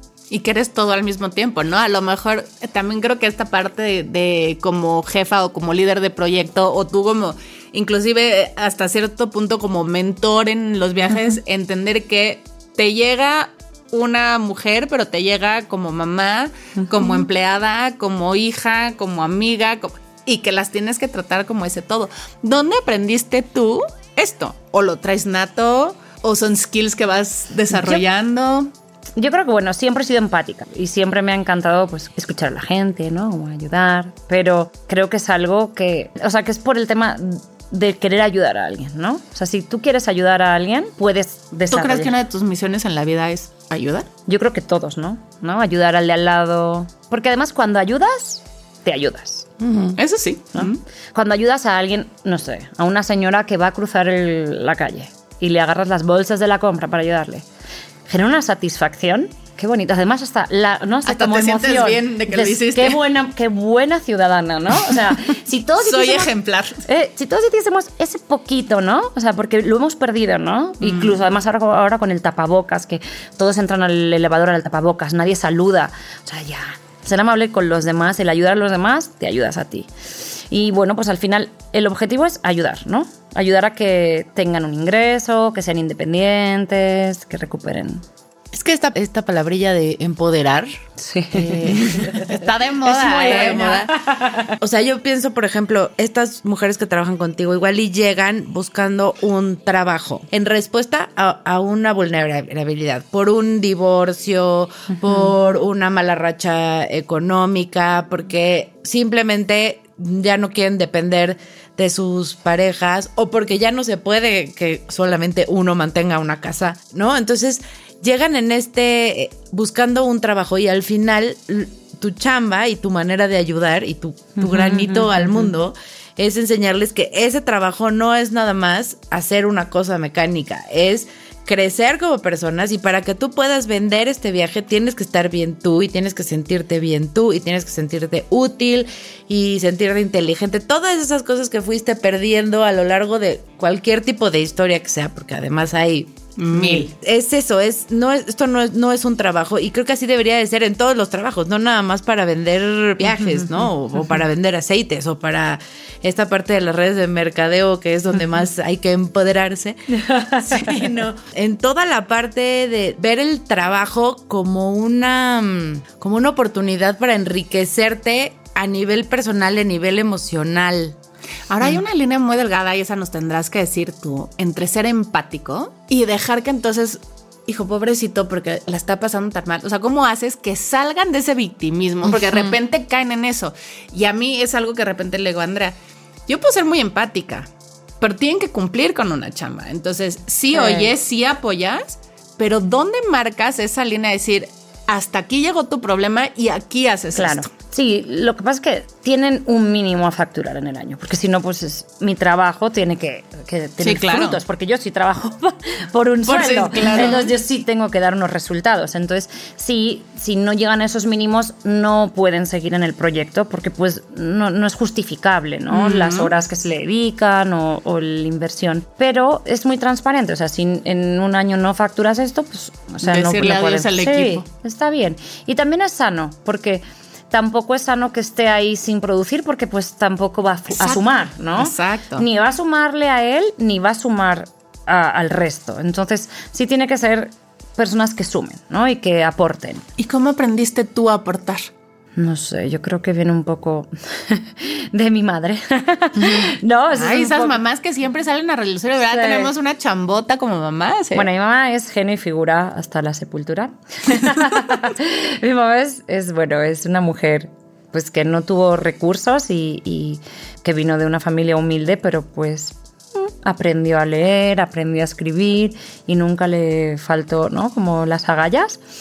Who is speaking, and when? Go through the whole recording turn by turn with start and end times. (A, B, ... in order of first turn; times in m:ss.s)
0:00.3-0:28.7 A
0:16.8-0:17.2 B
0:27.8-0:28.0 B
0:29.2-0:42.1 B
0:41.7-0:44.1 A
0:44.2-0:49.5 B
0:49.6-0:50.0 C
0:50.0-0:50.8 A
0:50.5-0:57.4 B
0:58.1-1:06.3 B
1:01.0-1:03.0 A
1:05.8-1:06.8 A
1:06.8-1:19.9 B
1:10.8-1:11.1 A
1:20.5-1:28.0 B
1:28.5-1:30.7 C
1:31.0-1:32.4 B
1:31.3-1:32.3 C
1:32.1-1:33.9 A
1:32.8-1:34.0 C
1:33.0-1:34.5 B
1:34.6-2:26.2 C
2:04.4-2:05.5 B
2:26.4-2:26.9 A
2:26.5-2:26.8 B
2:26.7-2:51.0 C
2:39.9-2:40.7 B
2:40.6-2:41.0 A
2:51.5-3:05.7 A
3:06.3-3:07.5 A
3:08.0-3:17.5 A
3:10.5-3:10.9 B
3:17.1-3:59.8 B
3:23.8-3:24.4 A
3:26.3-3:27.3 A
3:35.7-3:36.3 A
3:43.0-3:44.4 A
3:50.7-3:52.2 A
4:00.0-4:01.7 A
4:02.2-4:07.6 B
4:07.0-4:11.3 A
4:09.0-4:09.5 B
4:11.1-4:28.8 B